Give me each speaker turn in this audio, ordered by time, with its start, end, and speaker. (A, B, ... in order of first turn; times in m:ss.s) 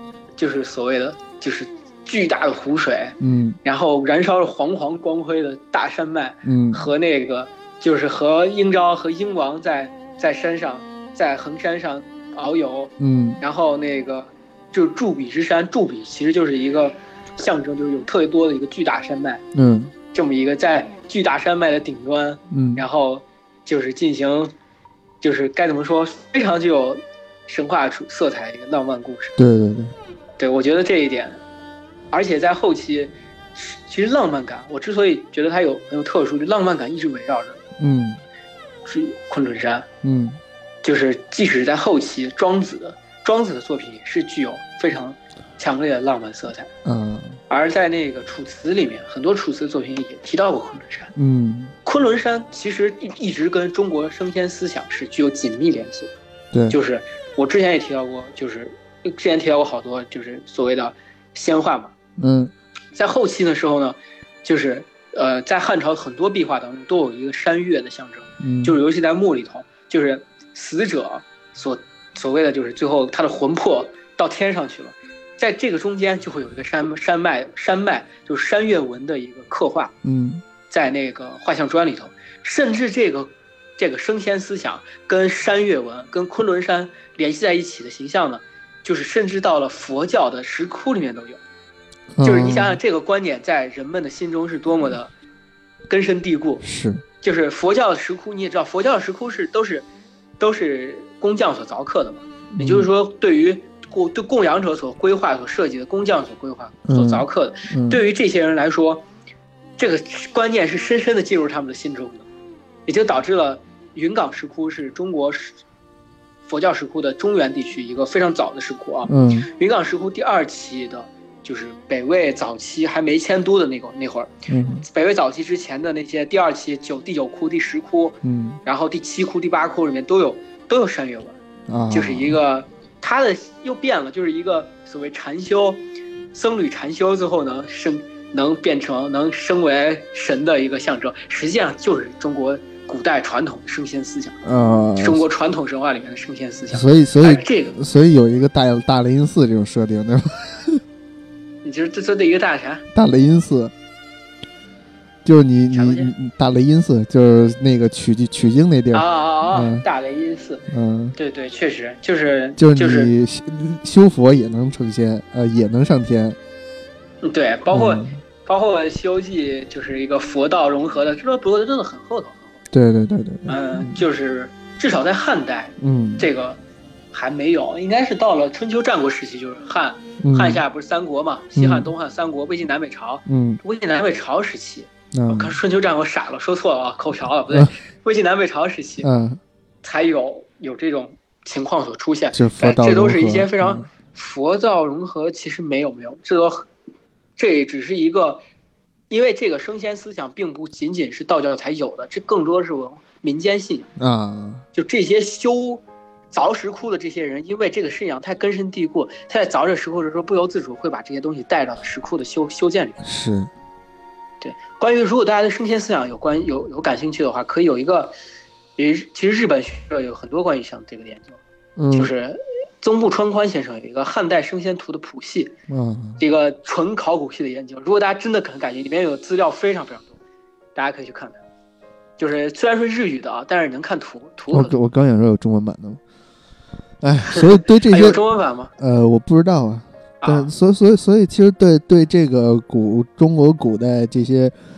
0:00.4-0:19.4 A
0:03.2-0:03.6 B
0:06.5-0:06.8 B
0:13.0-0:13.4 B
0:19.5-0:19.9 B
0:20.1-0:24.5 A
0:22.5-0:22.8 B
0:25.2-0:29.4 A
0:29.4-0:29.9 B
0:30.4-0:31.4 A
0:32.1-0:37.6 A
0:37.8-0:38.2 B
0:38.9-0:39.9 A
0:40.0-0:40.4 B
0:40.8-0:46.7 A
0:46.8-0:47.4 B
0:47.5-0:51.1 A
0:51.2-0:51.7 B
0:51.8-0:56.1 A
0:56.5-0:56.8 B
0:56.7-1:01.9 A
1:02.2-1:02.5 B
1:03.0-1:20.0 A
1:08.4-1:08.8 B
1:20.0-1:20.4 B
1:20.7-1:31.4 A
1:32.1-1:32.8 B
1:32.2-1:35.1 A
1:35.9-1:36.6 A
1:36.6-1:37.0 B
1:37.2-1:39.9 A
1:40.4-1:49.0 A
1:42.5-1:42.9 B
1:46.9-1:48.0 B
1:49.8-1:52.2 A
1:52.9-1:55.6 A
1:56.5-2:11.4 A
1:59.1-1:59.5 B
2:04.5-2:04.8 B
2:08.2-2:08.6 B
2:11.7-2:12.4 B
2:11.9-2:15.8 A
2:16.3-2:24.4 A
2:24.4-2:25.2 B
2:25.0-2:27.8 A
2:26.7-2:30.8 B
2:31.6-2:32.8 A
2:32.9-2:33.7 B
2:35.2-2:39.8 B
2:35.7-2:36.1 A
2:38.9-2:40.6 A
2:40.7-2:41.2 B
2:41.2-2:43.1 A
2:42.6-2:46.4 B
2:47.2-2:52.6 A
2:47.7-2:48.2 B
2:52.7-2:54.0 B
2:53.5-2:56.6 A
2:55.8-2:56.3 B
2:57.1-3:09.1 A
3:00.2-3:00.6 B
3:01.6-3:01.9 B
3:03.3-3:03.6 B
3:05.1-3:05.6 B
3:09.0-3:09.4 B
3:09.8-3:16.7 A
3:12.3-3:13.9 B
3:17.4-3:18.4 A
3:19.1-3:23.9 A
3:24.0-3:24.6 B
3:24.7-3:33.0 A
3:33.0-3:33.5 B
3:34.4-3:38.1 A
3:38.8-3:41.4 A
3:41.8-3:42.1 B
3:41.9-3:45.6 A
3:45.7-3:46.2 B
3:46.2-3:50.1 A
3:50.8-3:51.4 A
3:52.2-3:54.8 A
3:54.5-3:56.0 B
3:57.0-3:58.2 B
3:57.3-3:58.7 A
3:58.8-4:04.5 B
4:00.2-4:00.5 A